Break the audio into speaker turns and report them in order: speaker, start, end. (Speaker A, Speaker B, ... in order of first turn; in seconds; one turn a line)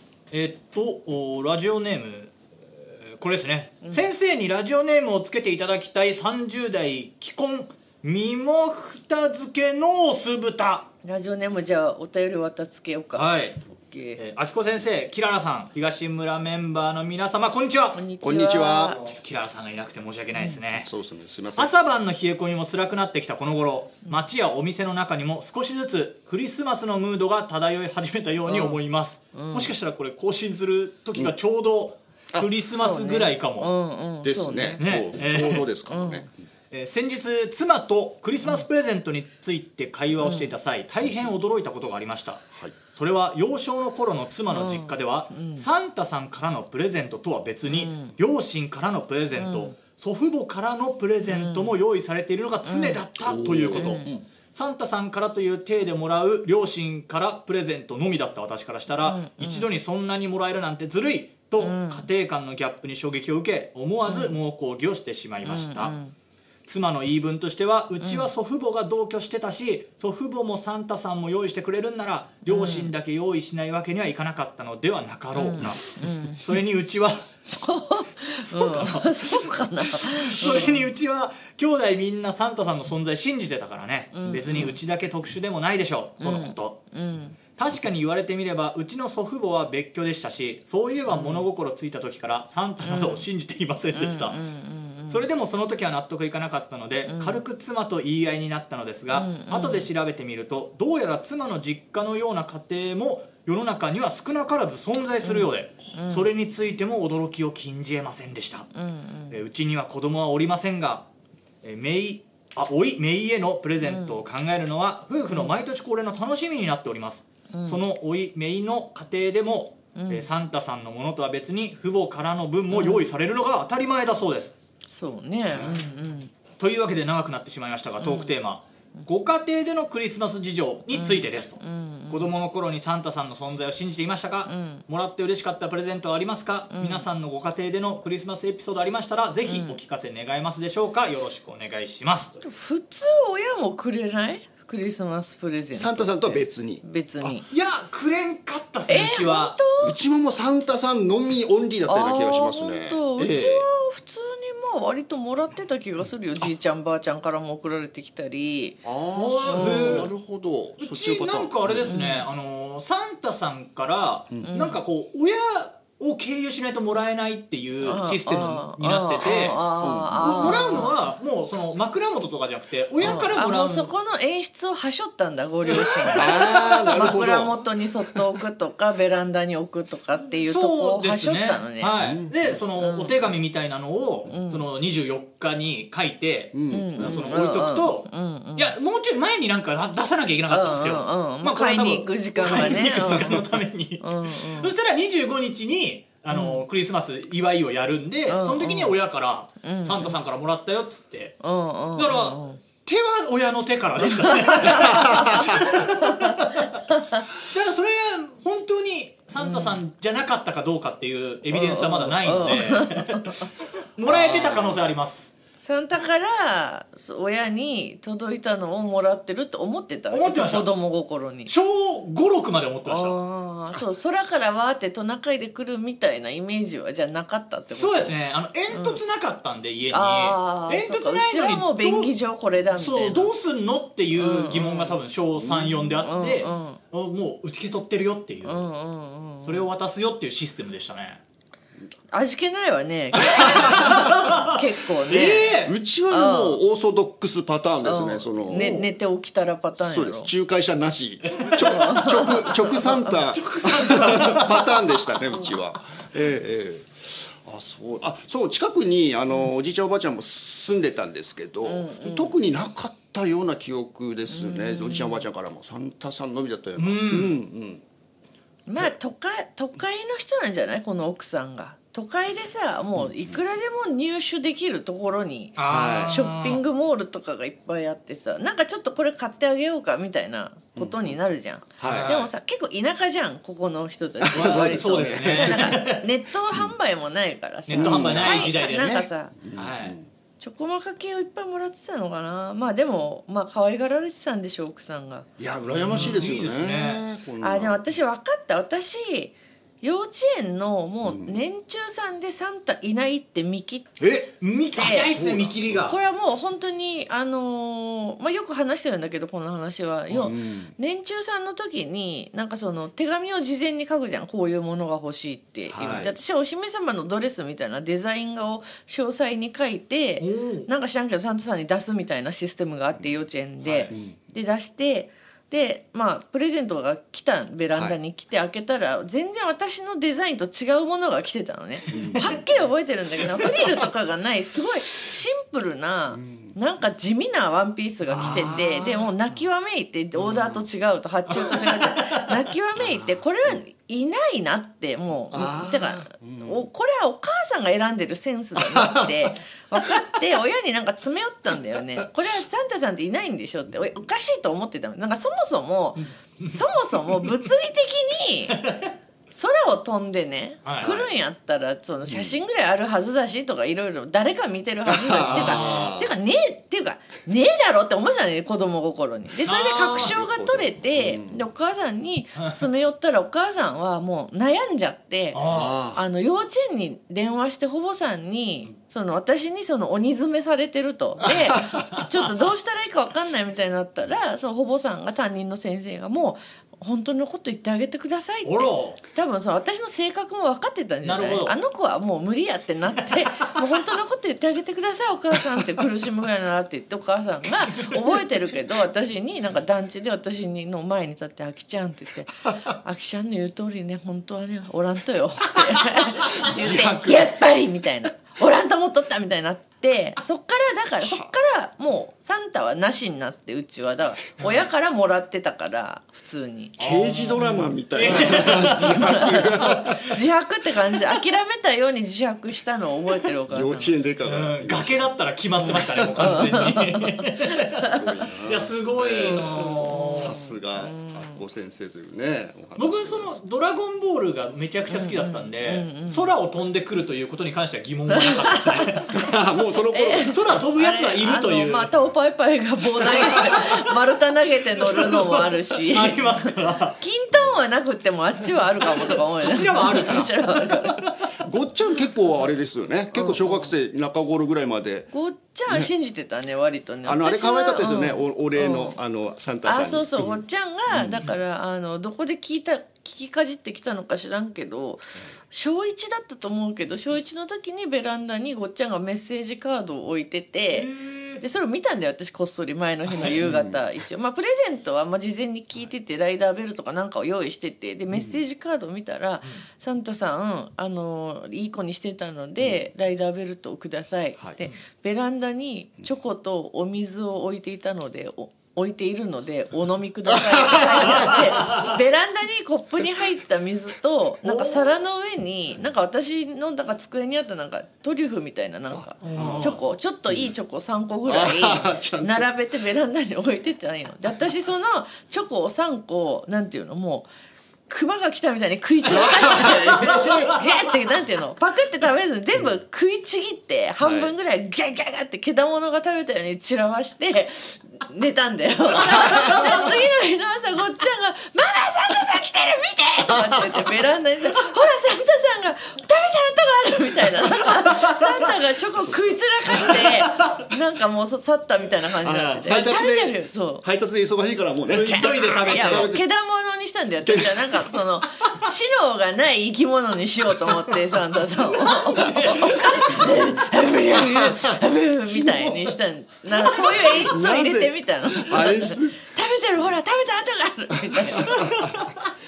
Speaker A: 0.3-10.9
Speaker B: 11.0-14.2
Speaker A: 13.1-13.6
Speaker A: 14.2-18.0
Speaker B: 17.9-19.0
Speaker C: 18.2-19.0
Speaker A: 19.0-20.9
Speaker C: 20.7-21.7
Speaker A: 21.6-33.7
Speaker B: 28.5-28.8
Speaker B: 29.3-29.7
Speaker B: 32.7-34.8
Speaker C: 34.2-36.3
Speaker A: 34.8-35.6
Speaker B: 35.9-36.2
Speaker A: 36.7-42.4
Speaker B: 40.2-40.5
Speaker A: 42.9-65.9
Speaker B: 44.5-45.6
Speaker B: 47.7-48.1
Speaker B: 49.3-49.7
Speaker B: 51.3-51.7
Speaker B: 52.6-53.0
Speaker C: 53.2-54.2
Speaker B: 53.7-54.1
Speaker B: 59.0-59.6
Speaker B: 61.6-62.0
Speaker B: 64.0-64.3
Speaker B: 65.4-66.1
Speaker A: 66.7-77.3
Speaker B: 68.0-68.3
Speaker B: 72.5-72.9
Speaker B: 75.3-76.4
Speaker B: 77.5-80.8
Speaker A: 78.5-86.8
Speaker B: 84.1-84.7
Speaker B: 86.2-87.3
Speaker A: 87.5-94.4
Speaker B: 91.1-91.5
Speaker B: 92.8-93.2
Speaker B: 93.9-95.2
Speaker A: 95.1-108.7
Speaker B: 97.1-97.4
Speaker B: 99.1-99.9
Speaker B: 105.2-106.3
Speaker B: 108.7-109.3
Speaker A: 109.3-111.1
Speaker A: 111.6-124.5
Speaker B: 113.8-114.2
Speaker B: 117.5-117.8
Speaker B: 119.9-120.2
Speaker B: 122.7-123.0
Speaker B: 124.9-126.3
Speaker C: 125.5-125.8
Speaker A: 126.6-142.4
Speaker B: 128.0-128.3
Speaker B: 130.9-132.3
Speaker B: 134.5-134.8
Speaker B: 136.7-137.1
Speaker B: 139.4-139.8
Speaker B: 142.4-147.4
Speaker C: 145.7-147.4
Speaker A: 147.5-149.6
Speaker B: 148.9-150.0
Speaker C: 149.8-153.7
Speaker B: 151.8-158.8
Speaker C: 158.8-161.9
Speaker A: 159.2-160.1
Speaker B: 159.4-160.1
Speaker A: 160.8-169.6
Speaker B: 161.8-162.2
Speaker B: 164.4-164.8
Speaker B: 167.8-170.9
Speaker C: 169.8-170.8
Speaker A: 170.2-173.9
Speaker C: 173.0-173.3
Speaker B: 173.0-181.9
Speaker A: 175.7-176.3
Speaker C: 176.1-177.6
Speaker A: 180.4-201.3
Speaker C: 181.9-182.6
Speaker B: 182.8-183.1
Speaker B: 184.3-184.6
Speaker C: 186.5-187.4
Speaker B: 186.7-188.7
Speaker B: 190.5-193.5
Speaker B: 194.0-194.7
Speaker B: 196.3-196.6
Speaker B: 198.3-198.9
Speaker B: 199.6-200.1
Speaker B: 201.4-202.6
Speaker A: 201.9-206.8
Speaker B: 204.5-205.4
Speaker B: 205.9-206.3
Speaker A: 207.3-215.3
Speaker B: 209.4-209.8
Speaker B: 211.5-213.5
Speaker C: 214.1-214.9
Speaker B: 215.6-221.5
Speaker A: 220.1-220.7
Speaker A: 221.5-223.2
Speaker B: 222.8-228.1
Speaker A: 227.7-232.1
Speaker B: 228.7-229.0
Speaker B: 229.9-233.3
Speaker A: 232.8-238.7
Speaker B: 234.2-235.0
Speaker C: 235.4-235.8
Speaker B: 236.0-236.8
Speaker B: 238.4-239.7
Speaker A: 239.4-241.2
Speaker B: 242.1-245.6
Speaker A: 243.2-244.5
Speaker A: 245.1-245.7
Speaker C: 245.6-248.8
Speaker B: 246.1-246.6
Speaker B: 247.8-250.3
Speaker A: 248.5-248.9
Speaker C: 249.8-267.8
Speaker A: 251.3-251.6
Speaker B: 251.6-253.1
Speaker A: 252.5-254.9
Speaker B: 261.6-262.3
Speaker B: 264.3-265.2
Speaker A: 266.8-267.3
Speaker B: 268.7-289.3
Speaker A: 275.6-276.6
Speaker C: 275.7-276.2
Speaker C: 280.7-281.2
Speaker C: 281.8-282.1
Speaker A: 281.8-282.3
Speaker C: 284.2-285.8
Speaker A: 284.3-286.1
Speaker A: 287.7-289.9
Speaker C: 287.7-290.1
Speaker B: 290.4-295.3
Speaker C: 295.4-297.8
Speaker A: 295.6-297.0
Speaker B: 295.9-296.2
Speaker B: 297.4-304.0
Speaker C: 301.0-301.4
Speaker C: 304.0-304.3
Speaker A: 304.4-306.0
Speaker B: 304.7-305.1
Speaker C: 304.9-305.9
Speaker B: 305.9-358.6
Speaker C: 310.1-310.7
Speaker C: 315.7-316.1
Speaker A: 320.2-320.7
Speaker A: 323.6-323.9
Speaker C: 331.9-332.4
Speaker A: 332.0-332.5
Speaker C: 336.1-336.6
Speaker C: 338.1-339.1
Speaker A: 338.1-338.4
Speaker C: 340.2-340.6
Speaker A: 341.3-342.3
Speaker C: 342.8-343.5
Speaker C: 345.3-346.6
Speaker C: 348.7-349.3
Speaker A: 356.0-357.3
Speaker A: 358.5-358.9
Speaker B: 359.3-375.4
Speaker A: 360.6-360.9
Speaker C: 360.8-361.1
Speaker C: 362.1-362.4
Speaker C: 364.9-366.1
Speaker A: 365.2-365.9
Speaker A: 369.4-370.1
Speaker C: 370.0-371.4
Speaker A: 375.3-375.8
Speaker C: 375.4-376.0
Speaker B: 375.9-416.8
Speaker C: 381.2-381.8
Speaker A: 388.4-389.0
Speaker A: 391.0-391.6
Speaker C: 406.4-407.4
Speaker C: 416.8-420.1
Speaker A: 416.8-419.4
Speaker B: 417.4-423.9
Speaker C: 423.4-425.1
Speaker A: 424.2-427.9
Speaker B: 425.6-428.0
Speaker C: 425.7-426.6
Speaker C: 427.8-433.3
Speaker A: 428.4-430.3
Speaker B: 429.1-431.4
Speaker A: 432.8-439.1
Speaker B: 434.9-436.3
Speaker B: 438.1-439.1
Speaker C: 439.1-440.6
Speaker B: 439.9-451.0
Speaker A: 440.3-441.9
Speaker A: 443.1-443.9
Speaker A: 444.7-447.0
Speaker A: 448.9-451.1
Speaker C: 451.4-455.1
Speaker B: 453.1-453.7
Speaker B: 455.1-459.0
Speaker C: 457.1-461.2
Speaker B: 459.6-470.9
Speaker A: 470.7-471.4
Speaker B: 471.4-507.3
Speaker A: 473.1-473.4
Speaker C: 473.4-473.9
Speaker C: 478.1-478.4
Speaker C: 490.3-491.8
Speaker A: 494.4-495.0
Speaker C: 498.9-499.7
Speaker A: 499.2-499.8
Speaker C: 501.2-502.5
Speaker B: 507.9-533.8
Speaker C: 509.1-510.5
Speaker A: 510.1-510.3
Speaker C: 514.0-514.3
Speaker C: 523.3-523.9
Speaker A: 529.8-530.5
Speaker C: 532.2-536.2
Speaker A: 534.9-536.1
Speaker B: 534.9-551.8
Speaker C: 537.2-537.9
Speaker A: 541.7-543.3
Speaker C: 543.1-543.4
Speaker C: 544.1-544.8
Speaker A: 545.3-545.9
Speaker A: 546.6-547.2
Speaker C: 547.2-550.0
Speaker C: 551.0-552.0
Speaker A: 551.5-552.1